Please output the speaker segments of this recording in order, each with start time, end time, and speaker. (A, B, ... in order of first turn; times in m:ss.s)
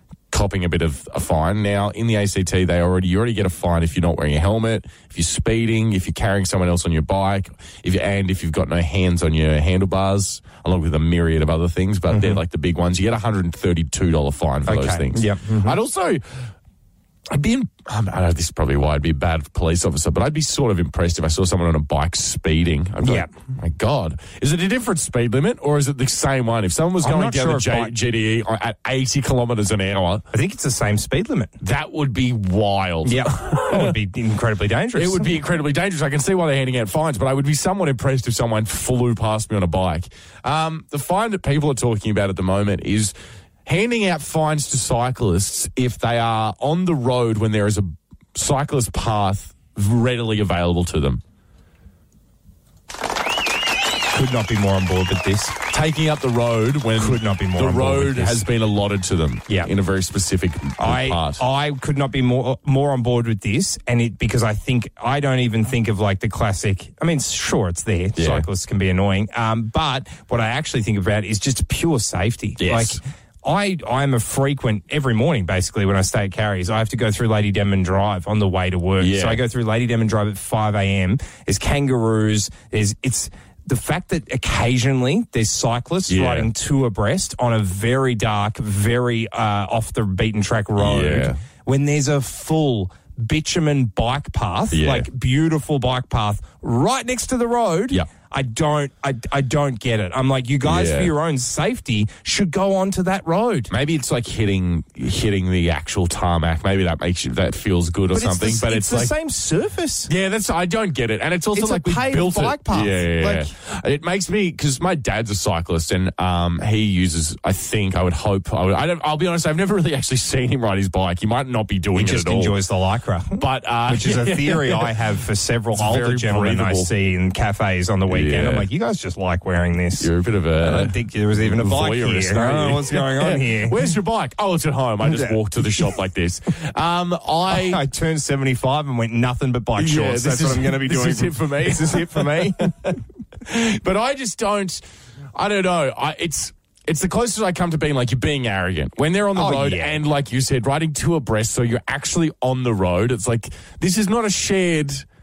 0:00.3-0:16.4 A
0:12.1-0:12.4 B
0:14.6-0:15.8 B
0:17.3-0:30.2 A
0:23.0-0:23.3 B
0:27.0-0:27.9 B
0:30.3-0:31.5 B
0:31.6-0:34.0 A
0:33.0-0:35.4 B
0:34.9-0:43.1 A
0:43.6-0:51.2 A
0:54.1-0:55.6 B
0:55.7-1:01.4 A
0:57.0-0:58.4 B
1:00.8-1:43.7 B
1:08.2-1:08.4 A
1:12.6-1:13.0 A
1:19.0-1:19.4 A
1:26.1-1:26.5 A
1:30.8-1:31.4 A
1:34.7-1:35.1 A
1:40.6-1:41.1 A
1:43.7-1:49.1 A
1:48.1-1:50.1 B
1:50.1-2:02.6 A
1:51.5-1:53.5 B
2:01.9-2:13.9 B
2:03.4-2:04.9 A
2:05.7-2:06.9 A
2:08.1-2:08.7 A
2:10.0-2:17.8 A
2:15.0-2:15.4 B
2:17.5-2:22.7 B
2:19.8-2:24.8 A
2:25.3-2:35.0 A
2:29.3-2:30.0 B